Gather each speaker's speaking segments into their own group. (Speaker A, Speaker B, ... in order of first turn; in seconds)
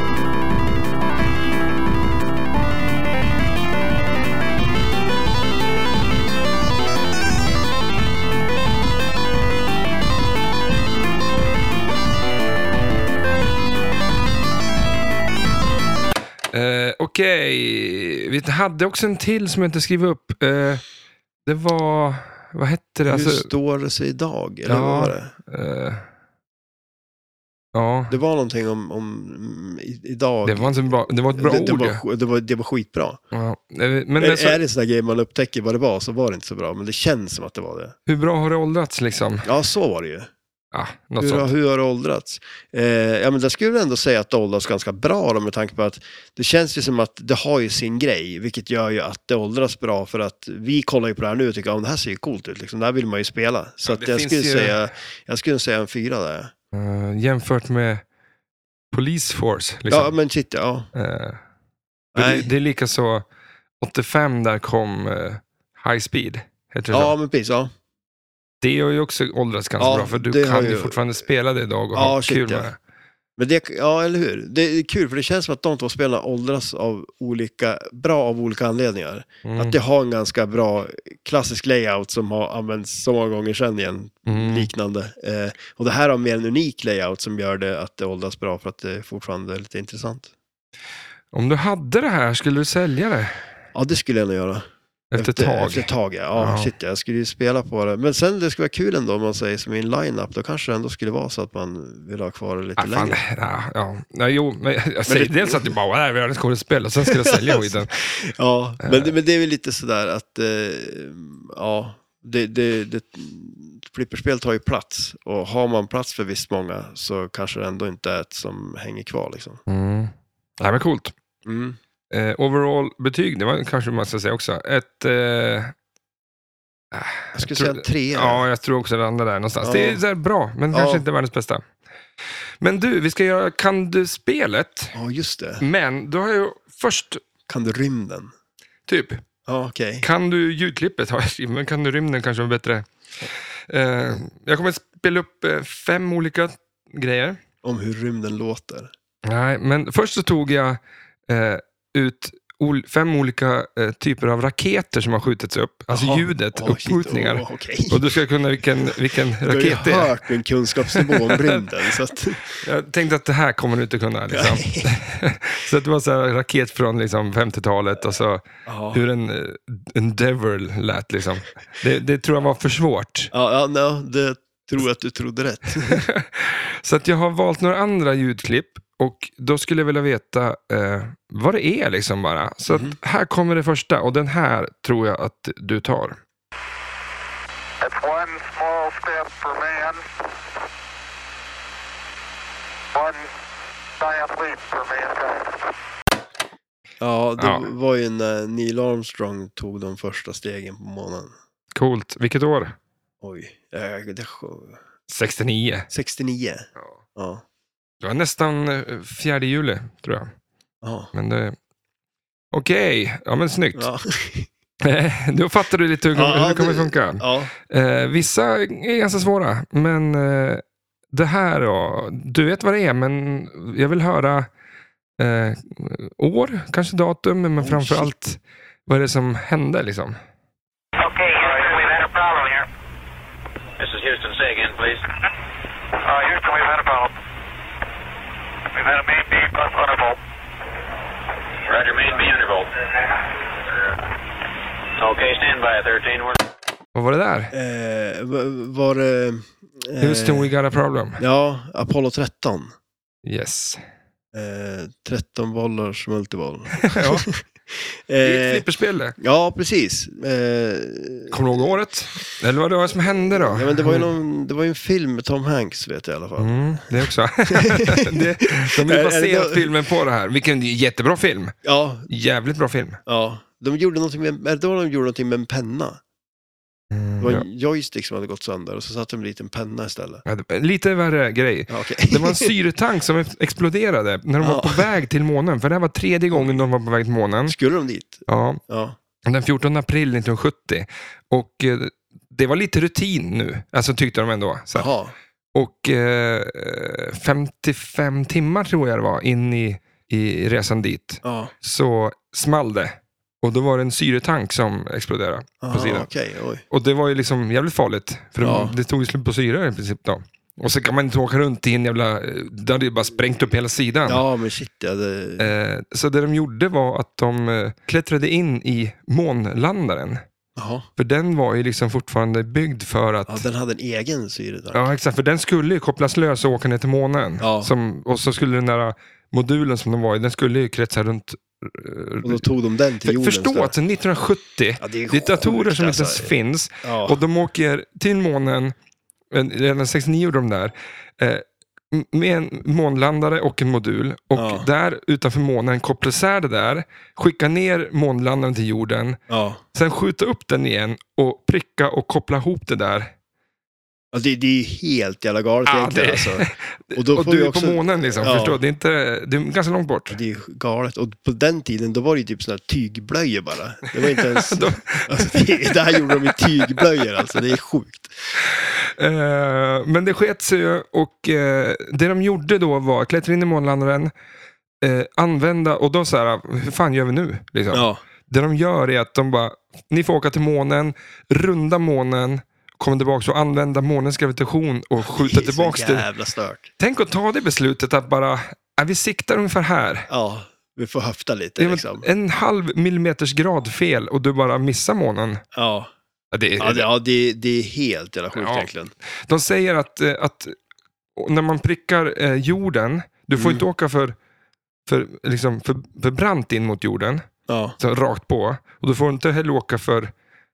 Speaker A: 16.5-20.8, 21.5-23.5, 24.7-26.1, 27.7-28.2, 30.4-32.0, 33.3-34.6, 38.1-39.5, 40.7-41.5, 53.9-54.9, 56.7-58.0, 58.9-60.1, 60.9-61.4, 62.1-63.2, 63.8-67.1, 68.6-72.8, 79.5-79.8, 84.3-84.7, 91.3-93.4, 95.1-96.7, 102.8-107.9, 108.8-109.1, 119.7-121.1, 122.1-125.7, 126.9-131.6, 132.6-134.9, 135.6-137.2, 138.9-139.2, 140.0-142.9, 143.7-147.4, 149.2-160.2, 160.9-161.6, 162.6-173.3, 175.8-186.2, 197.4-197.7, 201.7-202.8, 205.1-205.9, 208.0-210.3, 211.1-211.6, 212.5-213.9, 214.8-224.5, 225.2-230.2, 246.9-247.5, 250.0-251.2, 253.2-253.8, 256.9-257.3, 258.2-259.2, 261.3-264.1, 266.4-271.6, 272.1-273.0, 276.9-277.4, 280.3-287.6, 288.3-288.6, 289.3-294.9, 295.5-306.1, 306.7-314.2, 315.4-320.2, 321.0-323.4, 324.7-332.4, 333.0-338.8, 339.3-349.2, 349.7-353.1, 355.7-360.2, 364.0-366.8, 368.6-374.1, 374.8-386.1, 386.8-390.1, 391.6-395.4, 396.3-396.9, 398.3-398.7, 399.3-400.6, 401.2-404.2, 404.9-407.3, 407.8-410.1
Speaker B: 23.1-25.3, 28.1-33.2, 34.2-38.0, 39.5-40.3, 41.2-56.5, 59.9-60.9, 62.1-62.5, 66.9-67.7, 69.8-71.0, 71.9-72.7, 73.4-90.3, 93.8-94.7, 95.2-103.2, 105.1-105.7, 107.1-119.6, 121.5-121.8, 127.3-128.5, 129.6-130.0, 130.7-131.0, 134.9-135.6, 137.5-138.3, 139.5-140.1, 147.6-148.9, 155.9-158.0, 159.4-162.6, 164.3-165.0, 168.7-169.0, 173.3-176.1, 182.7-183.0, 197.0-201.3, 203.2-204.8, 205.9-207.4, 210.8-211.1, 213.8-214.5, 216.2-217.5, 227.6-228.1, 247.5-250.5, 251.2-252.7, 254.3-257.4, 258.1-258.6, 259.2-261.7, 263.3-269.7, 271.6-272.1, 273.1-276.0, 277.2-280.2, 281.7-282.5, 284.4-284.9, 286.3-286.6, 287.5-288.9, 294.7-295.1, 301.2-301.5, 305.6-306.6, 308.4-308.8, 314.1-315.5, 320.6-320.9, 323.3-324.8, 327.4-327.7, 332.2-333.8, 334.8-336.3, 336.8-337.2, 344.3-344.7, 349.3-349.6, 354.1-358.6, 360.1-368.1, 377.7-378.0, 385.0-386.7, 390.1-392.1, 395.6-395.9, 396.6-398.9, 403.4-403.6, 407.5-407.8
Speaker C: 187.8-190.1, 192.9-193.3, 194.0-195.6, 231.3-232.5, 236.0-237.1, 238.7-240.2
Speaker D: 231.0-232.6, 233.8-235.1, 241.7-242.7, 245.0-246.4